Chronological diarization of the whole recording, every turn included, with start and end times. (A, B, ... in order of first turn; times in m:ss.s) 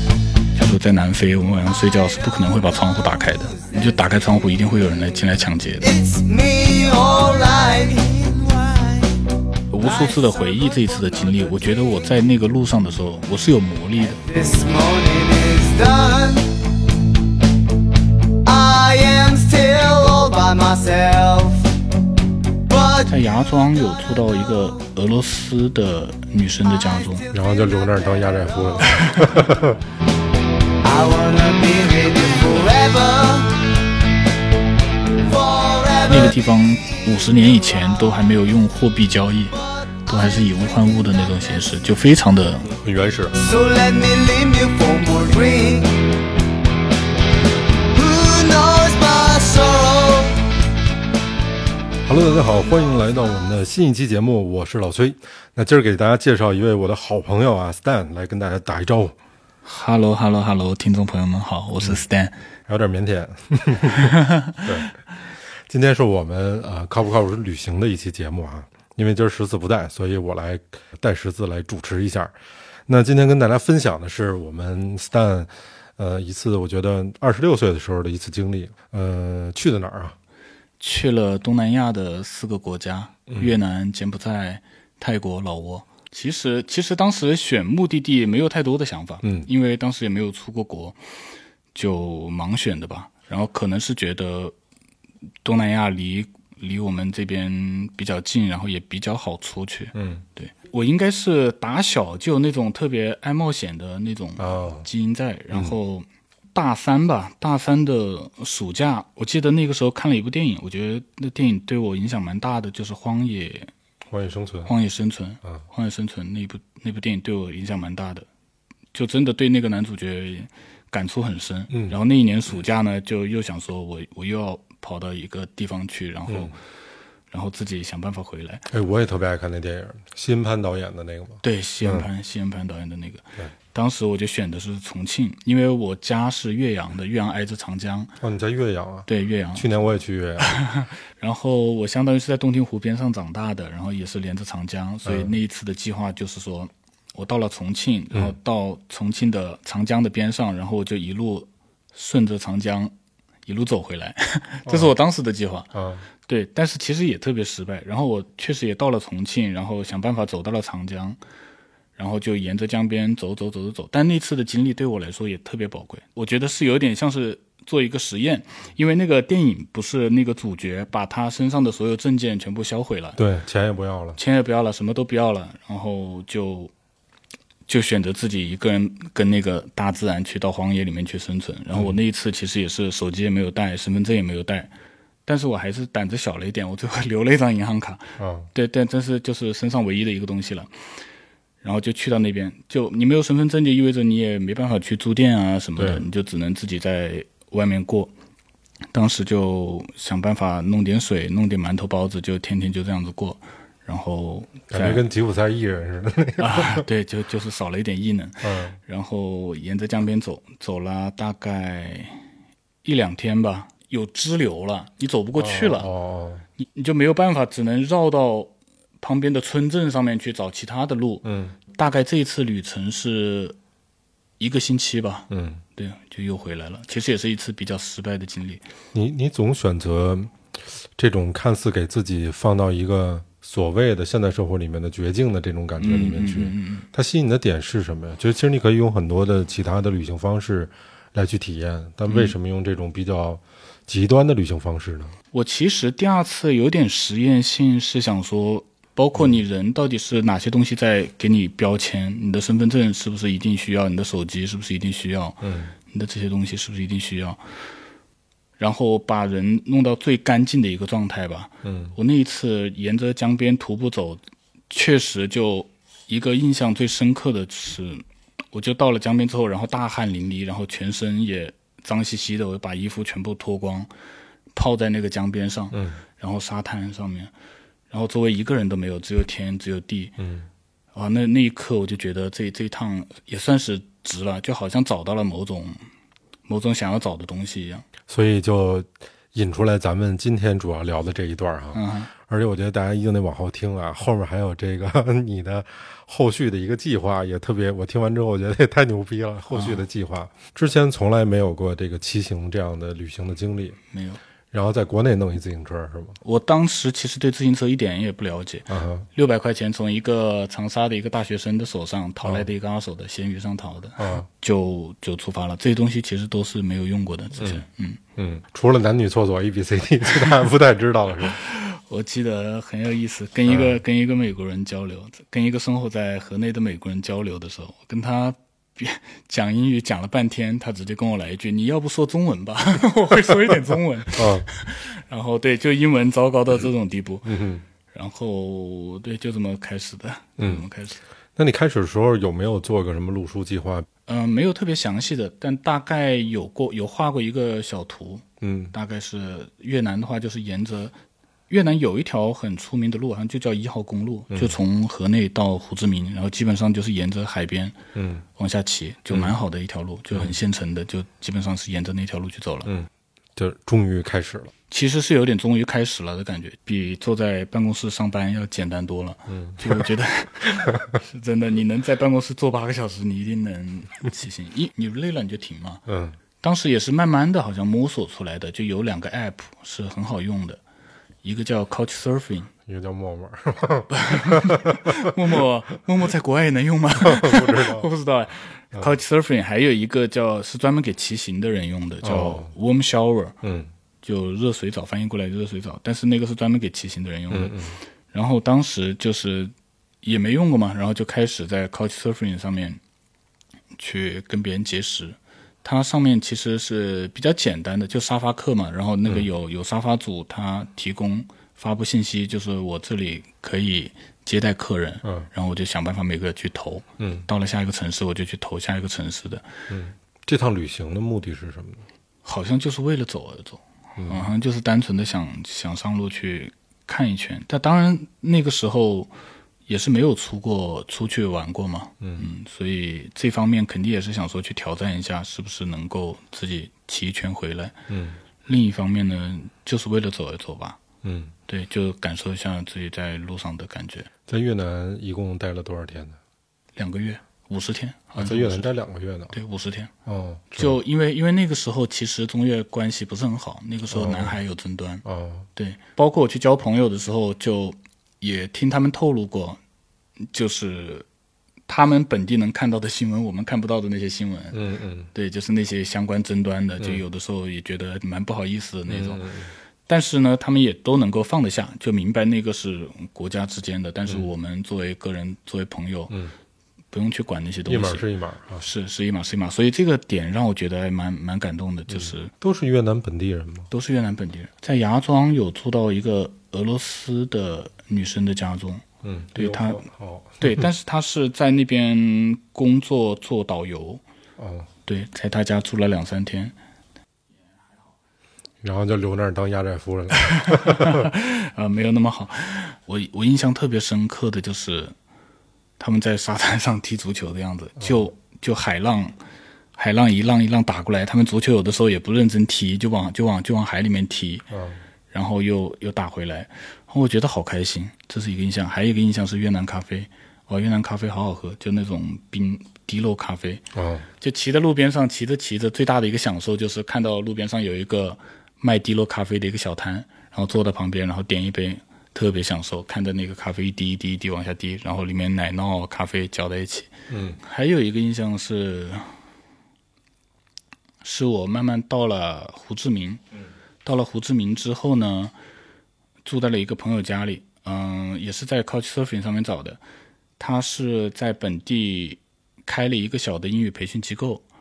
0:00.5-0:05.9 A
0:05.8-0:09.1 B
0:09.7-0:14.2 A
0:09.8-0:10.6 B
0:14.1-0:16.4 B
0:18.4-0:21.7 B
0:22.7-0:23.1 B
0:23.1-0:27.3 A
0:27.3-0:29.8 C
0:28.9-0:29.4 A
0:30.8-0:33.6 B
0:35.2-0:36.3 B
0:36.1-0:42.7 A
0:42.6-0:43.3 C
0:43.4-0:46.0 B
0:47.9-0:50.4 B
0:52.1-0:59.2 C
0:59.6-1:02.4 A
1:02.7-1:04.9 C
1:04.0-1:04.7 A
1:05.7-1:12.3 C
1:12.9-1:20.2 C
1:20.8-1:31.0 A
1:29.2-1:29.5 C
1:31.7-1:34.5 A
1:35.4-1:53.7 A
1:39.9-1:40.2 C
1:44.4-1:44.9 C
1:54.1-1:54.7 C
1:54.7-1:58.3 A
1:58.9-2:06.6 A
2:06.3-2:06.6 C
2:07.3-2:08.6 A
2:08.7-2:12.1 C
2:11.4-2:18.1 A
2:18.2-2:20.6 C
2:19.1-2:19.7 A
2:20.4-2:32.9 A
2:25.0-2:25.3 C
2:33.5-2:35.7 A
2:34.7-2:34.9 C
2:35.7-2:36.1 C
2:36.2-2:41.2 A
2:42.0-2:53.2 A
2:53.2-2:54.2 C
2:54.2-2:56.7 A
2:57.7-3:04.7 A
3:05.2-3:10.7 A
3:08.2-3:08.5 C
3:11.6-3:18.1 A
3:15.8-3:16.0 C
3:18.9-3:25.0 A
3:24.7-3:26.8 C
3:26.4-3:32.2 A
3:28.4-3:28.8 C
3:32.8-3:35.9 A
3:35.4-3:36.4 C
3:36.6-3:43.6 A
3:41.2-3:41.5 C
3:44.4-3:48.6 A
3:45.3-3:45.6 C
3:48.9-3:50.3 C
3:51.0-4:05.1 C
3:55.8-3:56.9 A
4:02.1-4:02.3 A
4:05.3-4:17.4 A
4:15.4-4:15.7 C
4:18.6-4:33.9 A
4:21.6-4:21.9 C
4:34.5-4:37.3 A
4:35.7-4:36.0 C
4:37.9-4:40.2 A
4:40.2-4:40.5 C
4:40.9-4:45.8 A
4:46.5-4:47.8 A
4:48.1-5:03.8 C
4:51.7-4:52.1 A
4:59.5-4:59.8 A
5:03.9-5:04.2 A
5:04.5-5:06.2 C
5:06.2-5:18.0 A
5:08.7-5:09.1 C
5:14.0-5:14.3 C
5:17.4-5:17.6 C
5:18.2-5:21.4 C
5:21.4-5:41.0 A
5:23.5-5:23.8 C
5:33.3-5:34.5 C
5:37.2-5:37.6 C
5:40.4-5:40.6 C
5:41.4-5:43.8 C
5:44.1-5:50.9 A
5:48.4-5:48.7 C
5:51.5-5:57.8 A
5:57.9-5:58.2 C
5:58.4-6:02.7 A
5:59.1-5:59.3 C
6:02.6-6:04.5 C
6:04.7-6:15.8 A
6:09.3-6:09.8 C
6:10.4-6:10.8 C
6:15.9-6:16.2 C
6:16.4-6:20.6 A
6:21.2-6:22.5 A
6:22.6-6:25.4 C
6:23.9-6:33.4 A
6:27.0-6:27.9 C
6:32.0-6:32.5 C
6:33.4-6:33.7 C
6:34.0-6:37.6 A
6:37.3-6:37.8 C
6:38.1-6:42.8 A
6:43.8-6:59.4 A
6:55.0-6:55.3 C
6:57.0-6:57.3 C
6:59.7-7:01.8 C
7:02.2-7:09.1 A
7:04.0-7:04.2 C
7:09.7-7:17.7 A
7:17.9-7:18.2 C
7:18.4-7:20.8 A
7:21.0-7:21.3 C
7:21.5-7:24.1 A
7:24.3-7:26.2 C
7:26.8-7:28.7 A
7:28.2-7:29.3 C
7:29.3-7:29.9 A
7:30.0-7:30.8 C
7:30.5-7:35.0 A
7:33.9-7:34.4 C
7:35.0-7:35.5 C
7:35.6-7:39.6 A
7:40.3-7:41.0 A
7:41.7-7:44.6 A
7:44.5-7:45.1 C
7:45.1-7:49.2 A
7:48.9-7:49.5 C
7:49.9-7:56.1 A
7:56.9-7:58.0 A
7:57.6-7:58.6 C
7:58.6-8:02.3 A
8:01.9-8:03.7 C
8:03.7-8:09.8 A
8:09.0-8:10.7 C
8:10.4-8:14.0 A
8:14.4-8:14.7 C
8:14.9-8:16.5 A
8:18.6-8:21.0 C
8:20.2-8:24.9 A
8:25.8-8:29.2 A
8:27.8-8:28.0 C
8:29.8-8:34.5 A
8:34.5-8:34.8 C
8:35.1-8:43.7 A
8:43.7-8:44.1 C
8:44.2-8:59.1 A
8:57.1-8:57.4 C
9:01.0-9:03.2 A
9:03.8-9:05.3 A
9:06.2-9:09.8 A
9:10.4-9:14.4 A